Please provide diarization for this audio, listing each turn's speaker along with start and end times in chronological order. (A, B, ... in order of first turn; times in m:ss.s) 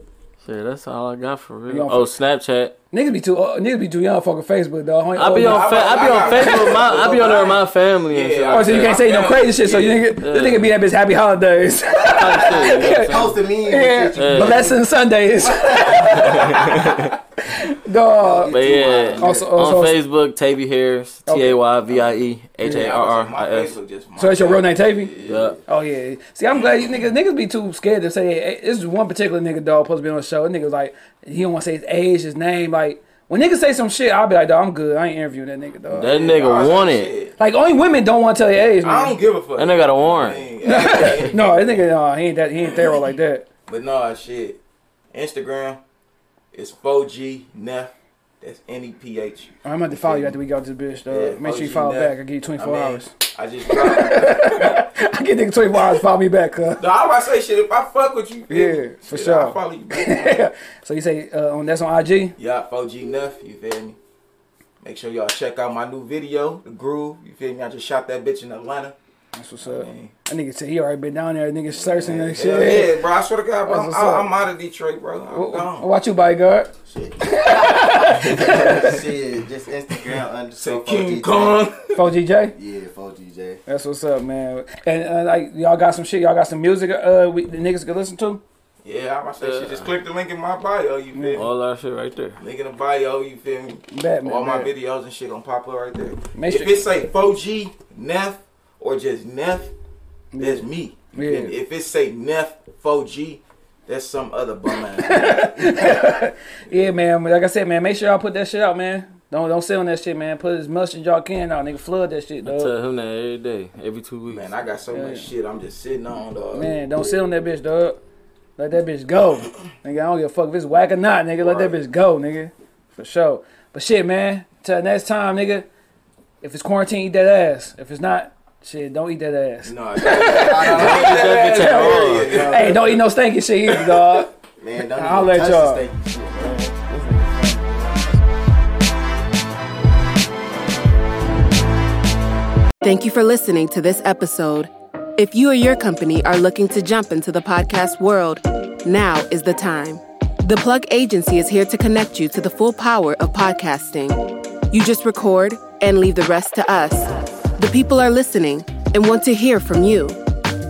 0:00.4-0:02.8 A
0:01.7-0:02.1 B
0:02.9-0:06.7 B
0:05.2-0:09.0 A
0:05.4-0:10.1 C
0:08.5-0:18.6 B
0:10.2-0:10.7 A
0:11.9-0:14.9 D
0:12.1-0:13.4 A
0:14.2-0:14.7 A
0:15.4-0:16.8 D
0:16.2-0:17.1 A
0:18.2-0:19.5 D
0:18.5-0:23.7 A
0:19.2-0:20.0 B
0:21.3-0:21.6 B
0:21.9-0:25.6 C
0:24.2-0:25.1 B
0:25.2-0:25.6 A
0:25.7-0:36.2 B
0:35.9-0:37.1 A
0:36.0-0:37.4 C
0:37.4-0:39.2 B
0:38.8-0:41.8 C
0:39.6-0:40.5 A
0:40.6-0:43.4 B
0:43.7-0:44.6 C
0:45.1-0:45.8 C
0:46.5-0:50.4 C
0:49.6-0:53.1 B
0:51.1-0:54.9 C
0:53.7-0:56.8 B
0:56.8-1:00.4 C
0:58.5-1:02.4 B
1:02.4-1:04.0 C
1:04.8-1:09.0 C
1:09.4-1:13.0 B
1:09.6-1:10.1 C
1:11.7-1:12.8 D
1:12.4-1:15.9 C
1:13.7-1:14.3 B
1:15.3-1:19.0 B
1:16.9-1:21.6 D
1:18.4-1:18.9 C
1:20.6-1:22.0 C
1:22.0-1:22.6 B
1:22.6-1:23.6 D
1:23.7-1:28.4 B
1:28.8-1:31.5 C
1:29.4-1:29.9 A
1:31.1-1:31.5 B
1:31.4-1:32.4 A
1:32.4-1:39.7 C
1:33.9-1:34.7 B
1:36.4-1:36.8 B
1:40.3-1:41.5 B
1:40.4-1:46.0 C
1:44.8-1:52.7 B
1:52.4-1:54.5 A
1:54.3-1:56.7 C
1:54.9-1:55.3 B
1:56.5-1:58.0 B
1:58.6-2:05.7 B
2:01.4-2:01.8 C
2:06.4-2:14.3 B
2:09.6-2:13.0 C
2:10.2-2:11.4 D
2:10.7-2:12.5 A
2:14.6-2:18.1 D
2:15.0-2:15.8 B
2:22.8-2:34.2 E
2:34.7-2:40.2 E